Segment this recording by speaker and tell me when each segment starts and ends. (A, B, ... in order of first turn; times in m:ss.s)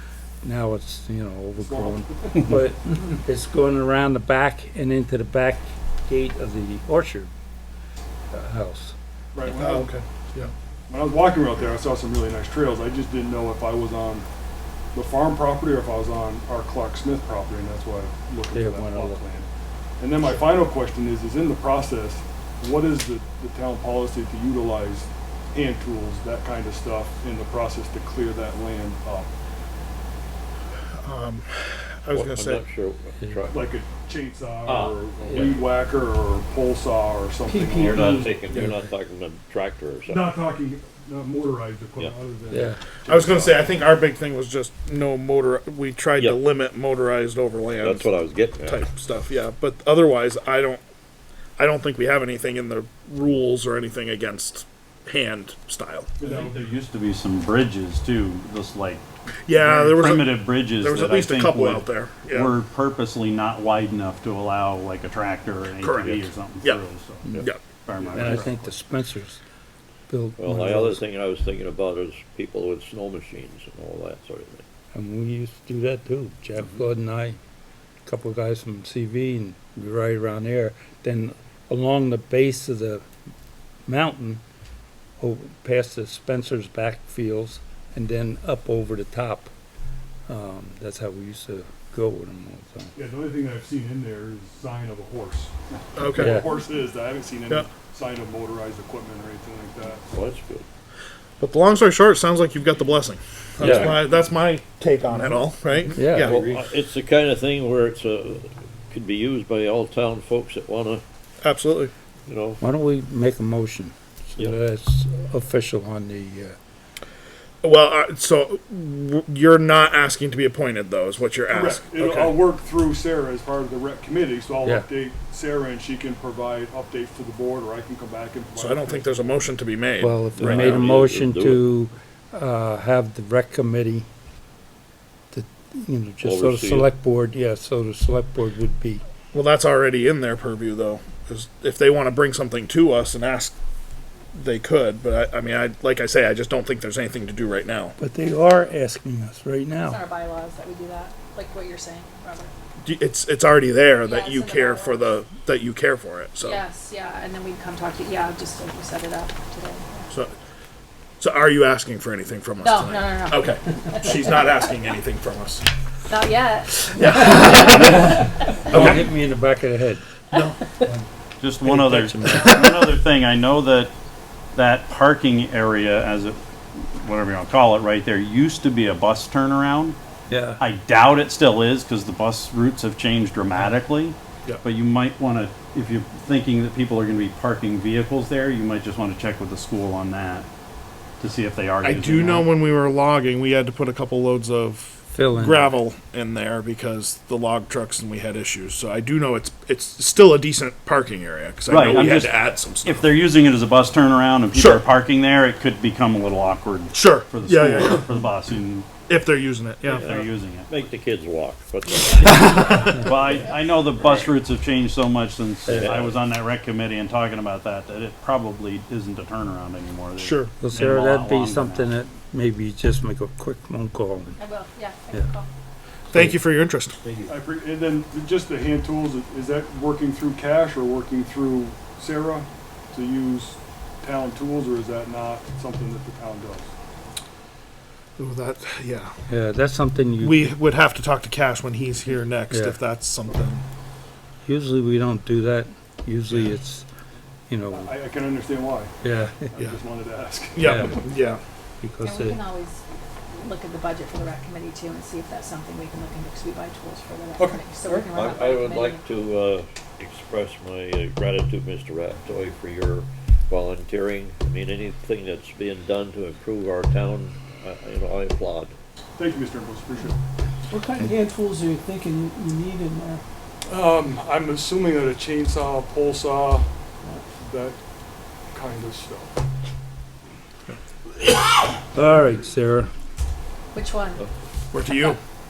0:00.4-0:07.3 A
0:01.6-0:02.2 B
0:08.3-0:09.0 A
0:09.3-0:09.9 B
0:09.4-0:10.5 C
0:10.9-0:14.2 B
0:14.9-0:19.5 B
0:18.5-0:19.2 A
0:20.0-0:29.3 B
0:31.0-0:32.6 C
0:32.1-0:33.7 D
0:33.5-0:38.2 B
0:34.6-0:35.6 D
0:37.5-0:38.2 E
0:37.7-0:40.4 D
0:40.1-0:43.7 B
0:42.5-0:42.8 A
0:43.0-0:50.8 C
0:46.2-0:46.4 D
0:47.8-0:48.8 D
0:51.6-0:56.1 C
0:56.2-1:07.2 F
0:59.4-1:02.6 C
1:05.8-1:06.8 C
1:07.8-1:08.7 F
1:08.1-1:09.4 A
1:10.1-1:11.0 A
1:10.4-1:14.6 D
1:14.9-1:17.4 A
1:18.0-1:23.0 A
1:23.8-1:24.4 A
1:25.2-1:29.5 A
1:30.3-1:32.9 A
1:32.9-1:40.0 B
1:36.0-1:36.4 C
1:36.1-1:36.5 A
1:40.1-1:40.6 D
1:41.4-1:46.5 C
1:43.6-1:44.0 D
1:43.6-1:43.9 A
1:45.9-1:46.4 A
1:46.2-1:51.0 D
1:51.4-1:51.9 C
1:52.2-1:52.6 D
1:52.6-1:56.6 A
1:57.6-2:02.4 C
2:01.5-2:09.4 B
2:04.6-2:04.9 A
2:08.6-2:10.8 C
2:10.0-2:14.0 A
2:10.4-2:11.6 D
2:15.3-2:19.0 A
2:16.2-2:16.9 D
2:19.3-2:23.5 C
2:24.3-2:27.9 C
2:28.0-2:30.0 A
2:29.8-2:32.5 G
2:32.8-2:36.6 C
2:34.0-2:35.1 G
2:36.4-2:40.1 G
2:41.2-2:45.6 C
2:42.6-2:44.7 G
2:46.1-2:48.3 G
2:46.9-2:48.1 C
2:47.8-2:50.0 A
2:48.7-2:49.1 C
2:50.3-2:50.6 C
2:51.4-2:53.9 F
2:51.6-2:52.6 A
2:54.5-3:00.0 F
3:00.3-3:00.6 A
3:00.6-3:10.5 F
3:11.2-3:12.4 F
3:11.8-3:23.1 C
3:15.1-3:15.7 A
3:21.7-3:28.9 F
3:24.5-3:24.9 C
3:26.9-3:28.1 C
3:29.1-3:30.2 C
3:29.9-3:33.2 D
3:29.9-3:30.8 F
3:32.4-3:33.0 C
3:32.8-3:41.9 F
3:35.7-3:36.2 D
3:40.2-3:40.5 C
3:40.6-3:44.4 A
3:44.4-3:45.5 G
3:46.1-3:47.0 C
3:47.3-3:56.7 B
3:58.2-3:59.1 C
3:59.3-4:00.5 A
4:00.2-4:03.6 C
4:02.5-4:02.8 A
4:04.4-4:06.8 A
4:07.5-4:07.9 A
4:07.7-4:08.9 B
4:09.0-4:09.5 A
4:09.5-4:10.5 B
4:10.5-4:11.4 C
4:10.6-4:11.0 A
4:11.8-4:12.4 A
4:12.0-4:12.8 G
4:13.3-4:19.1 G
4:18.1-4:28.7 D
4:29.2-4:30.2 B
4:30.7-4:33.2 E
4:33.7-4:36.7 B
4:37.4-4:37.8 B
4:38.5-4:39.3 B
4:41.9-4:42.9 A
4:43.7-4:44.2 G
4:44.7-4:45.2 C